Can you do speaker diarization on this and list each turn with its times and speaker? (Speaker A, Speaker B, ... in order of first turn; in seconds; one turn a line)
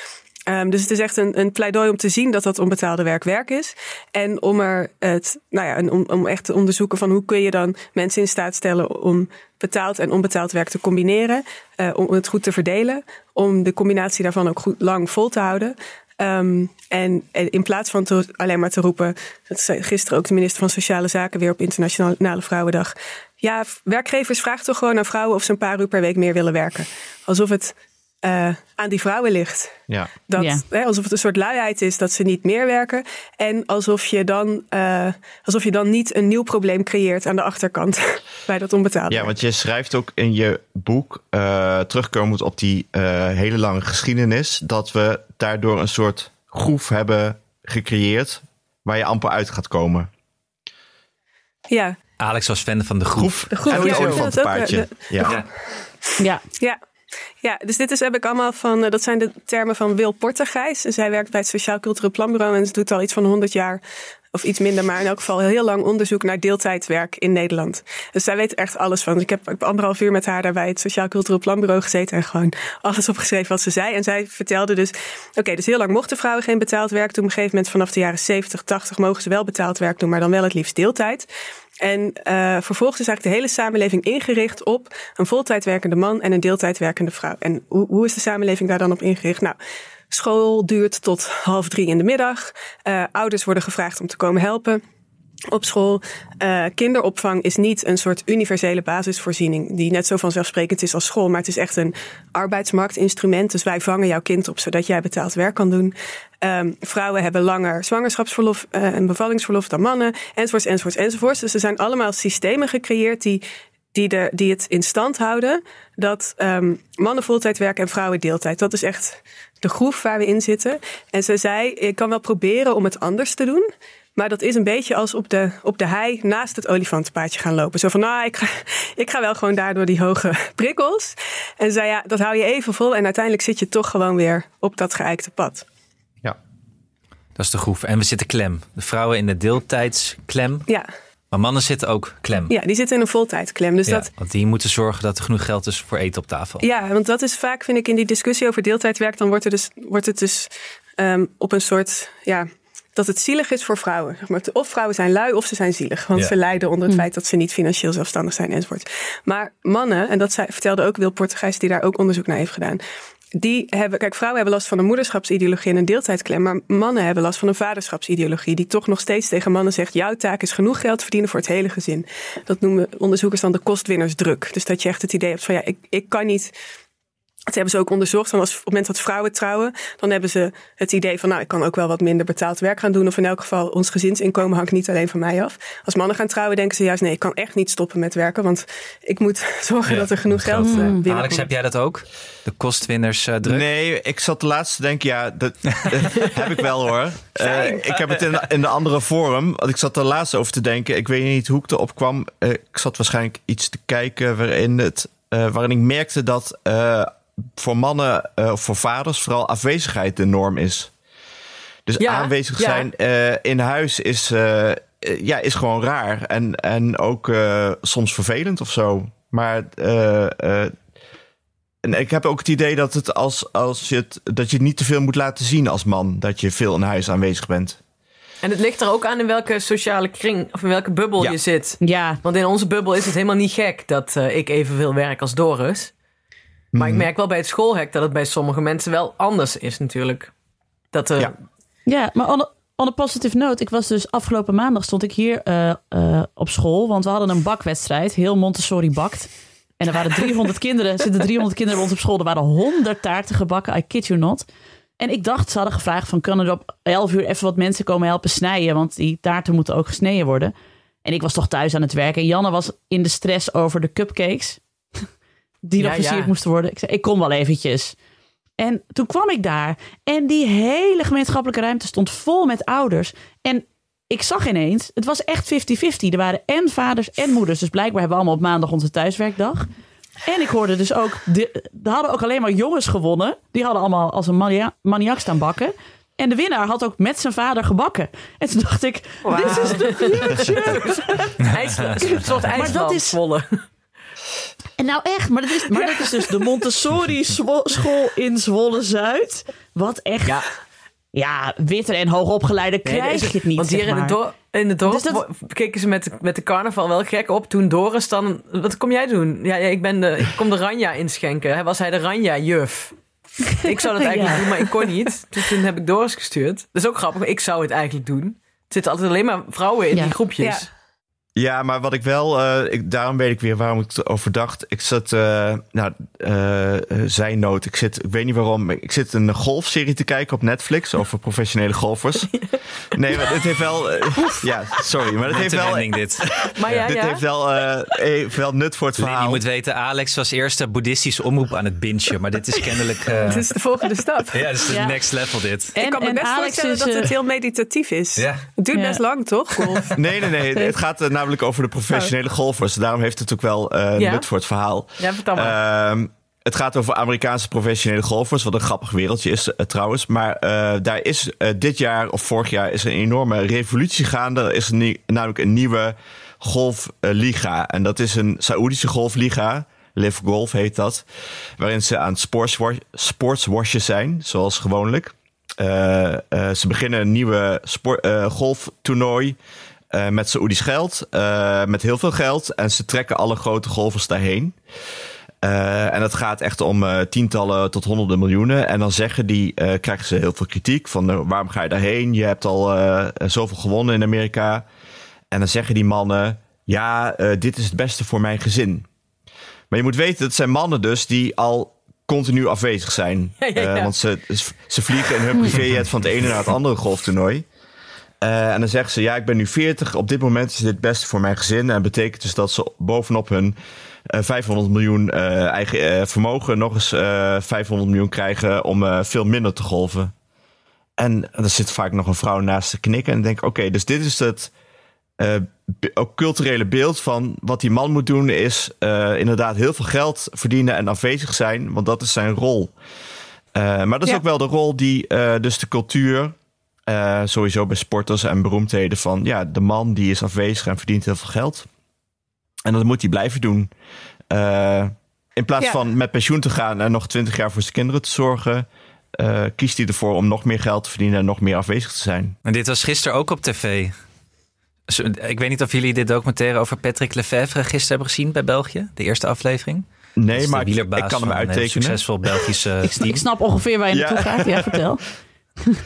Speaker A: 0.5-39.3
Speaker B: 30.4-30.6
Speaker C: 39.1-50.1
Speaker A: 51.7-52.0
Speaker D: 52.2-53.5
Speaker C: 53.1-55.4
Speaker A: 53.5-55.5
Speaker E: 53.7-54.3
Speaker A: 57.4-63.8
Speaker A: 64.3-81.3
Speaker A: 81.8-89.6
Speaker A: 90.1-94.8
Speaker A: 95.5-135.6
Speaker D: 137.3-140.7
Speaker D: 141.3-142.5
Speaker A: 142.5-144.1
Speaker D: 143.8-146.6
Speaker A: 146.6-162.8
Speaker A: 163.3-176.5
Speaker A: 177.5-191.5
Speaker D: 189.8-193.7
Speaker B: 190.6-191.0
Speaker C: 193.4-210.9
Speaker D: 195.8-196.0
Speaker A: 197.4-198.0
Speaker C: 211.8-220.7
Speaker E: 212.0-212.9
Speaker C: 221.8-227.8
Speaker E: 228.4-235.9
Speaker B: 231.8-232.2
Speaker C: 236.7-237.1
Speaker E: 236.8-240.3
Speaker E: 240.9-241.3
Speaker B: 241.9-254.4
Speaker B: 255.0-260.5
Speaker B: 261.0-264.6
Speaker B: 265.6-267.9
Speaker E: 265.8-266.3
Speaker B: 268.6-279.7
Speaker B: 280.2-291.0
Speaker E: 289.2-293.6
Speaker B: 292.1-293.2
Speaker B: 294.8-300.4
Speaker E: 295.7-296.1
Speaker B: 301.1-304.2
Speaker E: 302.8-312.9
Speaker B: 304.9-305.2
Speaker E: 313.6-320.7
Speaker B: 313.9-314.4
Speaker A: 320.4-320.7
Speaker C: 321.4-332.3
Speaker C: 332.9-339.4
Speaker D: 335.2-336.9
Speaker E: 336.6-337.2
Speaker D: 339.0-343.5
Speaker A: 343.2-344.7
Speaker D: 344.3-345.7
Speaker B: 344.7-345.0
Speaker A: 345.7-350.0
Speaker B: 345.8-347.1
Speaker D: 348.2-348.4
Speaker B: 348.7-349.0
Speaker C: 349.9-371.0
Speaker E: 353.9-354.3
Speaker E: 355.0-355.6
Speaker C: 371.6-379.4
Speaker C: 379.9-384.6
Speaker C: 385.4-394.6
Speaker C: 395.3-398.9
Speaker C: 399.7-407.4
Speaker E: 403.4-403.9
Speaker C: 408.2-413.5
Speaker C: 414.1-420.1
Speaker C: 421.0-424.5
Speaker C: 425.2-432.7
Speaker C: 433.5-436.3
Speaker C: 436.9-441.7
Speaker C: 442.6-443.7
Speaker C: 444.3-452.3
Speaker D: 452.4-453.9
Speaker D: 454.9-463.2
Speaker C: 460.2-462.5
Speaker B: 462.8-465.0
Speaker C: 463.9-464.9